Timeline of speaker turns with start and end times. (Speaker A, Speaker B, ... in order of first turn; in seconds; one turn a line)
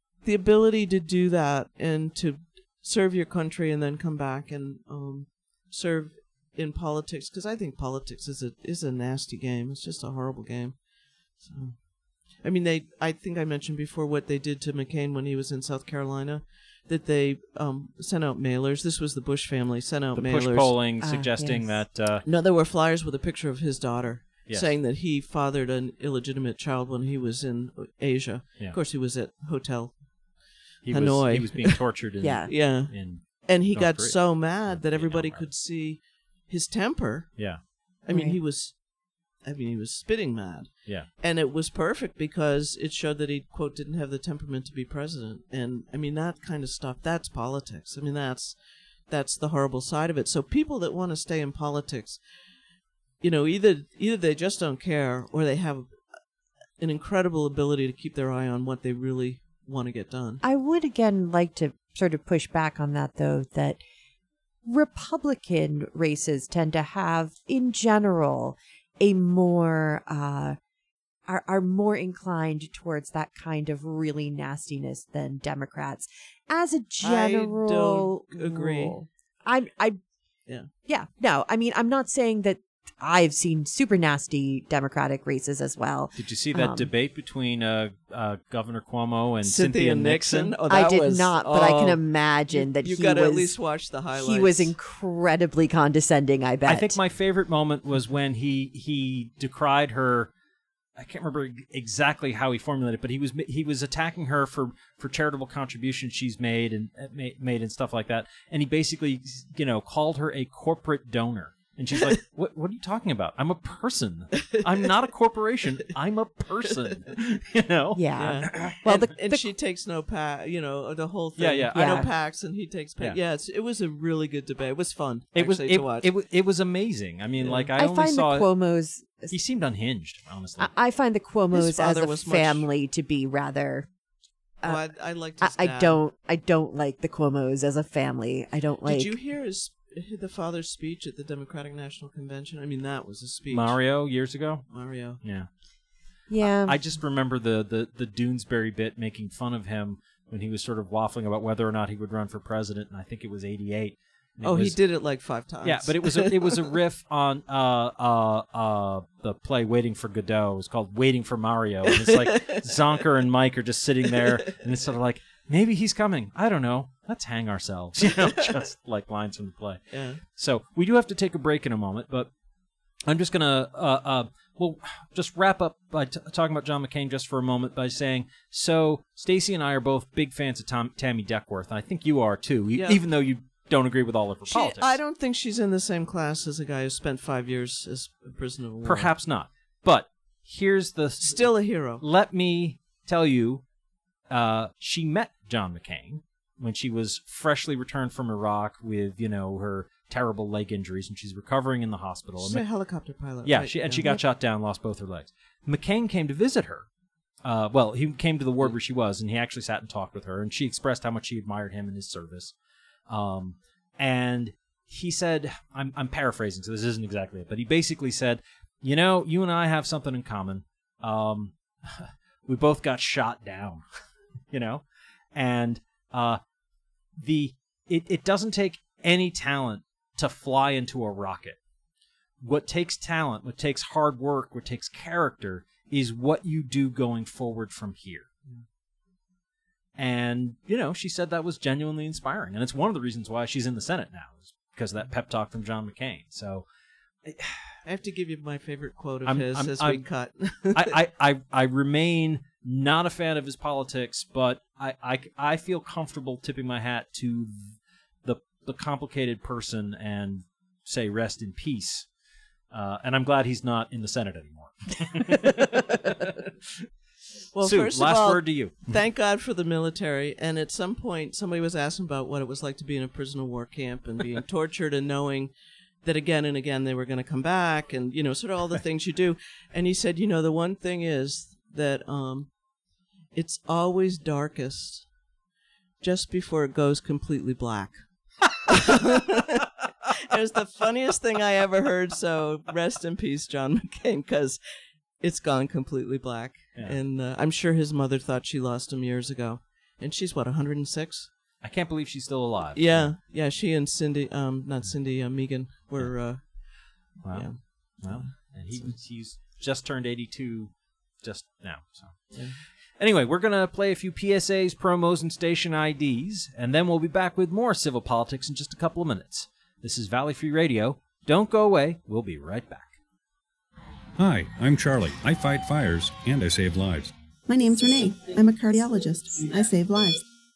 Speaker A: 0.2-20.8
Speaker B: 20.1-22.2
Speaker C: 21.0-21.8
Speaker A: 22.2-31.8
Speaker B: 30.8-35.5
Speaker C: 32.2-32.5
Speaker A: 32.5-48.6
Speaker C: 38.1-38.4
Speaker A: 49.1-52.2
Speaker A: 53.2-56.0
Speaker A: 56.8-60.4
Speaker C: 60.4-63.8
Speaker C: 64.7-70.6
Speaker C: 71.3-80.0
Speaker A: 77.0-79.0
Speaker C: 80.8-86.9
Speaker B: 86.2-90.5
Speaker A: 89.4-94.7
Speaker C: 90.7-93.5
Speaker C: 94.1-97.0
Speaker B: 96.7-100.3
Speaker B: 101.0-118.8
Speaker C: 118.0-119.4
Speaker A: 118.2-126.1
Speaker B: 121.4-122.1
Speaker C: 121.7-122.1
Speaker B: 125.3-128.5
Speaker A: 127.4-127.7
Speaker C: 127.8-129.3
Speaker B: 129.3-130.7
Speaker C: 130.6-133.9
Speaker A: 131.5-132.7
Speaker A: 134.6-136.0
Speaker C: 135.4-139.1
Speaker A: 138.8-143.8
Speaker B: 143.5-144.7
Speaker A: 144.7-145.2
Speaker B: 145.2-145.5
Speaker C: 146.3-146.8
Speaker B: 146.4-154.8
Speaker A: 154.4-156.7
Speaker B: 155.6-172.3
Speaker A: 161.9-162.7
Speaker A: 168.1-168.5
Speaker A: 169.9-170.2
Speaker B: 173.1-185.0
Speaker A: 182.7-183.0
Speaker A: 184.5-189.1
Speaker B: 188.8-193.6
Speaker A: 191.2-192.0
Speaker B: 194.3-202.7
Speaker A: 202.4-204.0
Speaker B: 203.4-206.9
Speaker B: 207.4-212.5
Speaker B: 213.1-223.8
Speaker B: 224.5-226.4
Speaker B: 227.2-231.6
Speaker B: 232.4-238.3
Speaker B: 240.0-246.7
Speaker B: 247.2-247.8
Speaker A: 247.8-250.9
Speaker B: 249.2-250.0
Speaker B: 250.7-262.1
Speaker B: 262.7-266.9
Speaker A: 267.5-275.5
Speaker B: 267.6-269.0
Speaker A: 276.0-282.6
Speaker A: 283.3-285.1
Speaker A: 286.0-294.6
Speaker A: 295.2-301.3
Speaker B: 301.6-303.1
Speaker A: 302.7-308.9
Speaker B: 306.0-306.6
Speaker B: 307.2-322.9
Speaker A: 312.3-312.6
Speaker D: 324.2-327.1
Speaker E: 327.5-330.2